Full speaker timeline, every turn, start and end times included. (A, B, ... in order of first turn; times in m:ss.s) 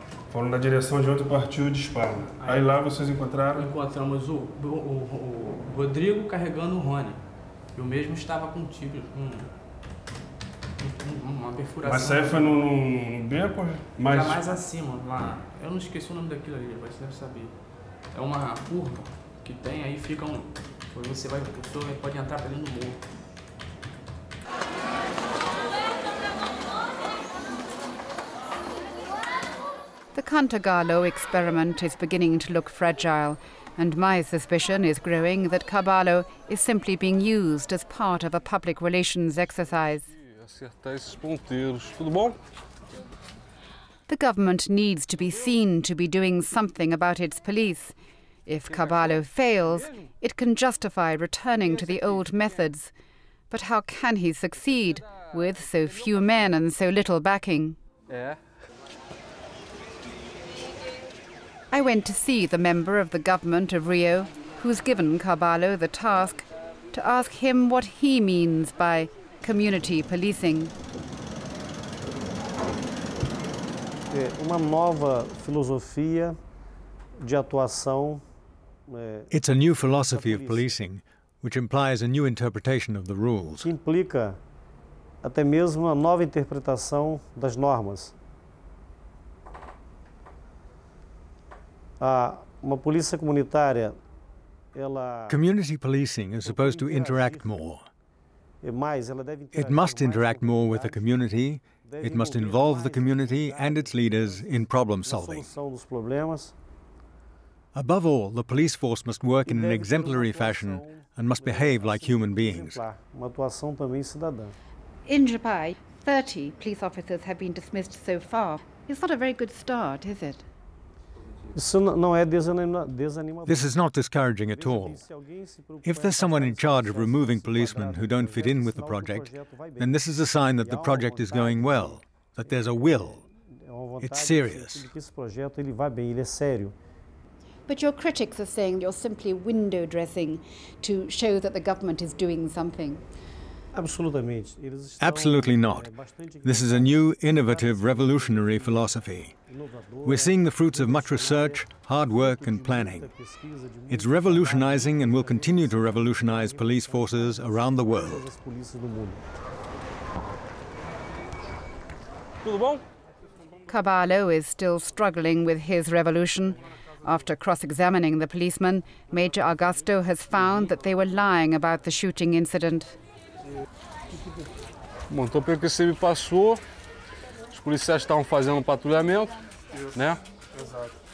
0:00.3-0:03.7 A
0:02.4-0:02.8 B
0:03.5-0:09.5 B
0:10.8-0:12.6 B
0:11.8-0:14.5 A
0:14.0-0:23.0 B
0:30.2-0:40.1 C
0:40.2-0:42.4 D
0:44.1-0:48.0 C
0:48.5-0:52.9 C
0:51.9-0:52.3 D
0:53.5-0:57.8 C
0:55.0-0:55.2 D
0:58.1-0:58.4 D
1:01.7-1:10.7 C
1:14.1-1:16.4 E
1:17.2-1:18.2 E
1:18.9-1:20.8 E
1:19.3-1:23.7 F
1:23.6-1:24.4 E
1:25.2-1:28.1 E
1:32.0-1:34.0 E
1:34.7-1:35.4 E
1:35.3-1:37.9 F
1:36.4-1:37.6 E
1:38.6-1:46.6 E
1:39.5-1:45.5 F
1:47.7-1:52.8 F
1:49.4-1:54.6 E
1:55.1-2:00.5 C
2:01.6-2:16.8 E
2:03.5-2:05.0 F
2:05.8-2:13.2 F
2:14.0-2:14.9 F
2:17.7-2:23.0 C
2:23.7-2:39.2 E
2:25.0-2:29.4 F
2:30.0-2:33.1 F
2:33.9-2:38.3 F
2:42.4-2:42.8 D
2:43.7-2:53.0 C
2:55.1-2:56.6 D
2:57.5-2:59.4 D
2:59.7-3:00.0 A
2:59.9-3:00.2 D
3:00.5-3:01.0 A